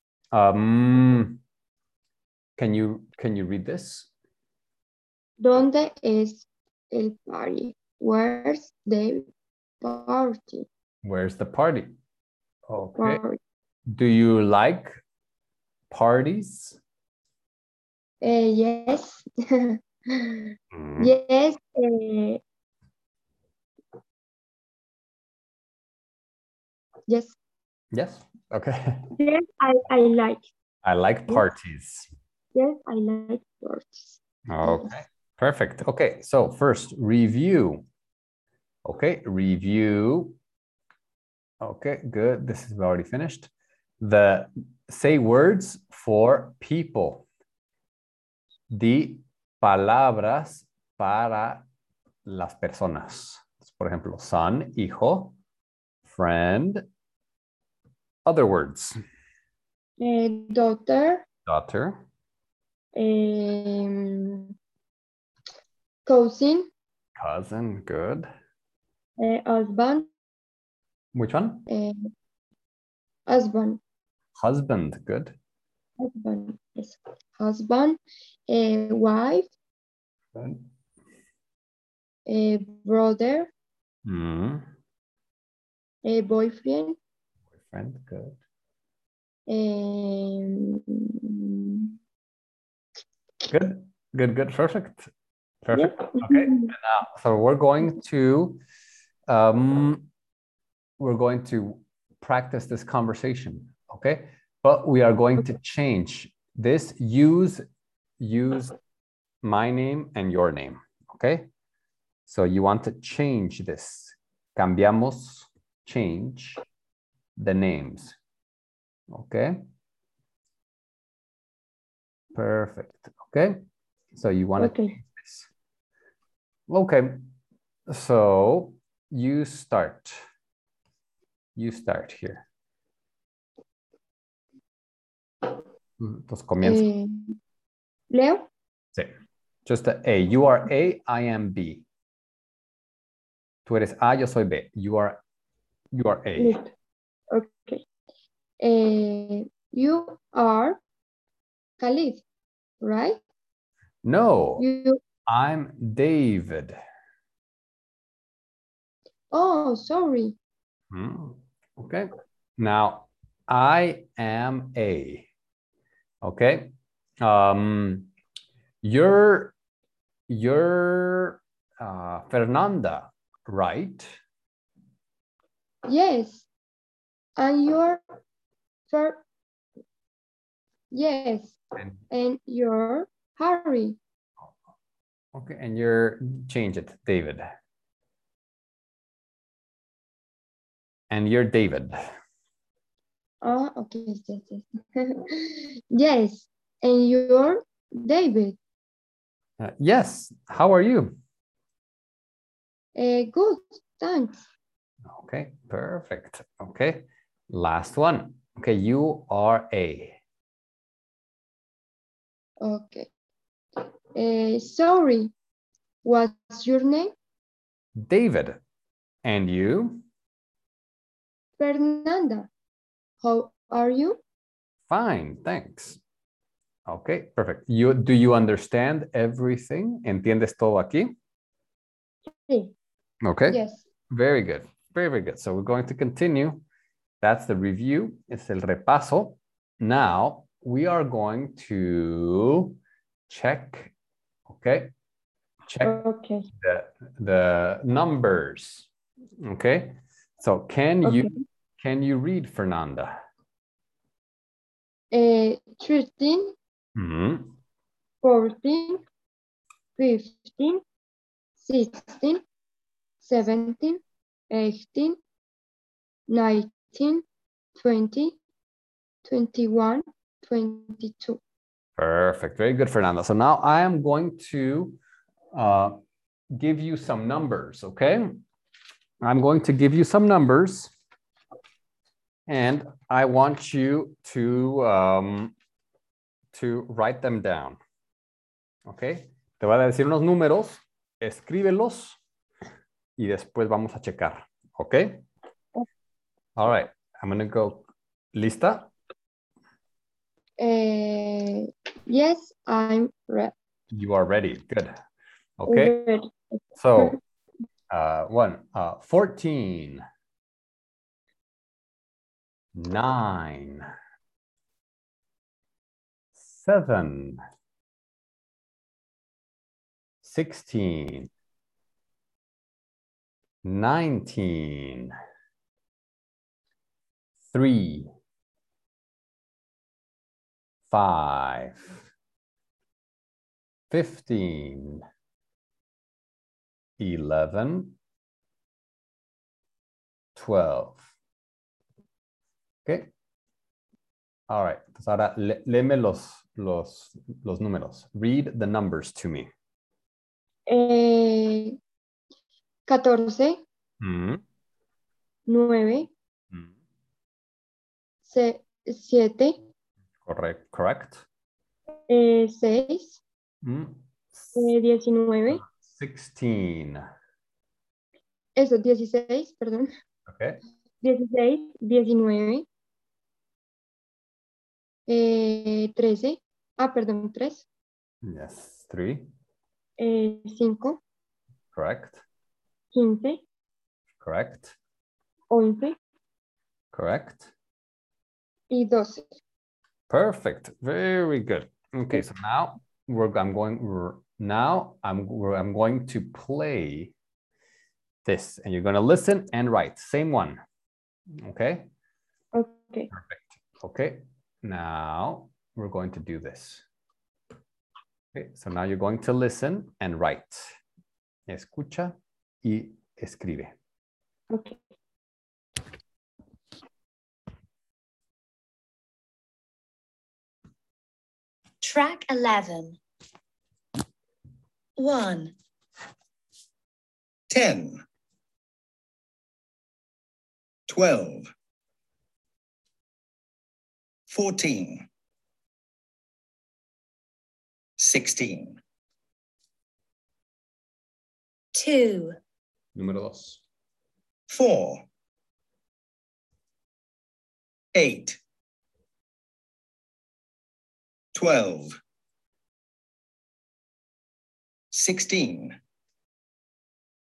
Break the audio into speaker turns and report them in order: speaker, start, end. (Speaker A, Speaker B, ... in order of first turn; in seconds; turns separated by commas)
Speaker A: 0.3-1.4, Speaker A: 2.6-4.1, Speaker B: 5.4-9.3, Speaker B: 9.8-10.7, Speaker A: 11.0-11.9, Speaker A: 12.7-13.2, Speaker B: 13.0-13.4, Speaker A: 13.9-15.0, Speaker A: 15.9-16.8, Speaker B: 18.2-22.4, Speaker A: 20.7-21.1, Speaker B: 27.1-27.4, Speaker A: 27.9-29.1, Speaker B: 29.1-30.4, Speaker A: 30.8-32.1, Speaker B: 32.5-34.9, Speaker A: 34.5-37.8, Speaker A: 38.8-40.4, Speaker A: 41.6-47.2, Speaker A: 48.7-51.6, Speaker A: 52.2-55.3, Speaker A: 56.0-56.9, Speaker A: 58.2-59.0, Speaker B: 60.0-61.2, Speaker A: 61.5-62.0, Speaker B: 63.0-64.5, Speaker B: 66.0-66.7, Speaker A: 67.2-68.3, Speaker B: 69.2-70.1, Speaker A: 71.1-71.7, Speaker B: 71.7-72.1, Speaker B: 73.3-73.8, Speaker A: 74.3-75.3, Speaker B: 76.0-79.5, Speaker A: 80.3-80.6, Speaker B: 82.2-83.5, Speaker A: 84.0-84.7, Speaker B: 86.0-87.0, Speaker A: 87.6-88.4, Speaker B: 89.5-91.9, Speaker A: 93.5-95.1, Speaker A: 95.6-98.6, Speaker B: 95.7-96.7, Speaker A: 99.3-100.1, Speaker A: 101.0-107.6, Speaker A: 108.2-108.8, Speaker A: 109.4-111.5, Speaker A: 112.2-116.6, Speaker A: 117.4-118.2, Speaker A: 119.1-119.6, Speaker A: 122.3-123.6, Speaker A: 124.1-125.5, Speaker B: 124.6-125.0, Speaker A: 126.7-127.3, Speaker A: 127.9-130.2, Speaker A: 131.6-132.4, Speaker A: 136.0-136.8, Speaker B: 136.6-137.4, Speaker B: 138.1-138.5, Speaker A: 139.6-141.8, Speaker A: 143.7-145.2, Speaker A: 145.9-146.6, Speaker B: 146.4-146.7, Speaker B: 147.3-147.8, Speaker B: 148.6-150.8, Speaker B: 151.8-152.2, Speaker B: 152.8-153.2, Speaker A: 154.0-154.7, Speaker B: 154.6-155.0, Speaker A: 155.2-156.8, Speaker B: 159.3-160.3, Speaker A: 160.9-165.3, Speaker A: 166.2-168.1, Speaker A: 168.8-169.5, Speaker A: 170.3-174.1, Speaker B: 175.8-176.5, Speaker B: 177.4-178.0, Speaker B: 178.9-179.2, Speaker B: 180.9-181.6, Speaker B: 182.1-184.0, Speaker A: 185.3-187.4, Speaker A: 191.1-192.0, Speaker B: 193.4-198.6, Speaker A: 199.6-201.2, Speaker B: 202.9-204.5, Speaker A: 205.0-210.2, Speaker B: 212.6-213.1, Speaker B: 214.1-215.3, Speaker B: 216.0-217.1, Speaker A: 217.9-218.6, Speaker A: 219.2-220.0, Speaker B: 221.6-222.5, Speaker B: 223.2-224.2, Speaker A: 224.9-226.0, Speaker A: 226.8-231.1, Speaker B: 232.4-232.7, Speaker A: 233.2-236.6, Speaker B: 233.5-233.8, Speaker A: 237.2-242.8, Speaker A: 243.3-243.9, Speaker A: 244.5-244.9, Speaker A: 245.7-246.0, Speaker B: 245.8-246.5, Speaker A: 246.6-248.9, Speaker A: 249.4-253.1, Speaker B: 251.0-251.3, Speaker B: 255.1-256.5, Speaker A: 256.9-257.6, Speaker B: 258.2-259.0, Speaker B: 259.9-260.8, Speaker B: 261.6-262.4, Speaker B: 263.2-265.2, Speaker B: 266.3-267.2, Speaker B: 267.8-268.4, Speaker B: 269.2-271.4, Speaker A: 272.0-275.0, Speaker A: 275.5-276.0, Speaker A: 276.5-278.4, Speaker A: 279.2-280.9, Speaker A: 282.5-285.5, Speaker A: 286.5-287.8, Speaker A: 288.9-292.2, Speaker A: 293.2-295.2, Speaker A: 296.6-298.9, Speaker B: 300.6-303.5, Speaker A: 303.9-304.9, Speaker A: 305.6-305.9, Speaker B: 305.7-306.3, Speaker A: 306.8-307.2, Speaker A: 307.9-310.0, Speaker A: 312.7-313.9, Speaker A: 316.3-317.4, Speaker A: 320.2-321.3, Speaker A: 323.6-325.1, Speaker A: 327.4-328.1, Speaker A: 330.9-332.0, Speaker A: 333.9-335.0, Speaker A: 337.0-338.0, Speaker A: 340.4-341.0, Speaker A: 342.8-343.1, Speaker A: 344.5-349.5, Speaker B: 350.7-351.8, Speaker B: 352.9-353.6, Speaker A: 354.0-354.4, Speaker B: 355.5-356.1, Speaker B: 358.2-359.6, Speaker A: 360.2-361.2, Speaker B: 362.1-363.2, Speaker A: 363.6-364.7, Speaker B: 364.5-365.6, Speaker A: 365.5-367.0, Speaker B: 368.6-369.9, Speaker A: 370.2-370.6, Speaker B: 371.0-372.6, Speaker B: 375.1-377.6, Speaker A: 378.2-379.3, Speaker B: 380.0-381.0, Speaker A: 381.7-382.2, Speaker B: 382.9-383.4, Speaker A: 384.2-384.8, Speaker B: 385.5-386.0, Speaker A: 386.9-387.5, Speaker B: 388.7-389.2, Speaker A: 390.1-397.1, Speaker A: 398.2-400.6, Speaker A: 401.4-401.9, Speaker B: 402.5-403.1, Speaker A: 403.1-406.8, Speaker A: 408.3-410.7, Speaker A: 411.5-413.7, Speaker B: 414.5-414.8, Speaker C: 421.8-423.0, Speaker C: 425.0-425.5, Speaker D: 427.5-428.0, Speaker D: 430.9-431.5, Speaker D: 434.3-435.1, Speaker D: 438.0-438.8, Speaker C: 441.7-442.4, Speaker A: 442.9-443.6, Speaker D: 444.5-445.1, Speaker D: 447.9-448.4, Speaker D: 451.3-451.9, Speaker D: 454.9-455.8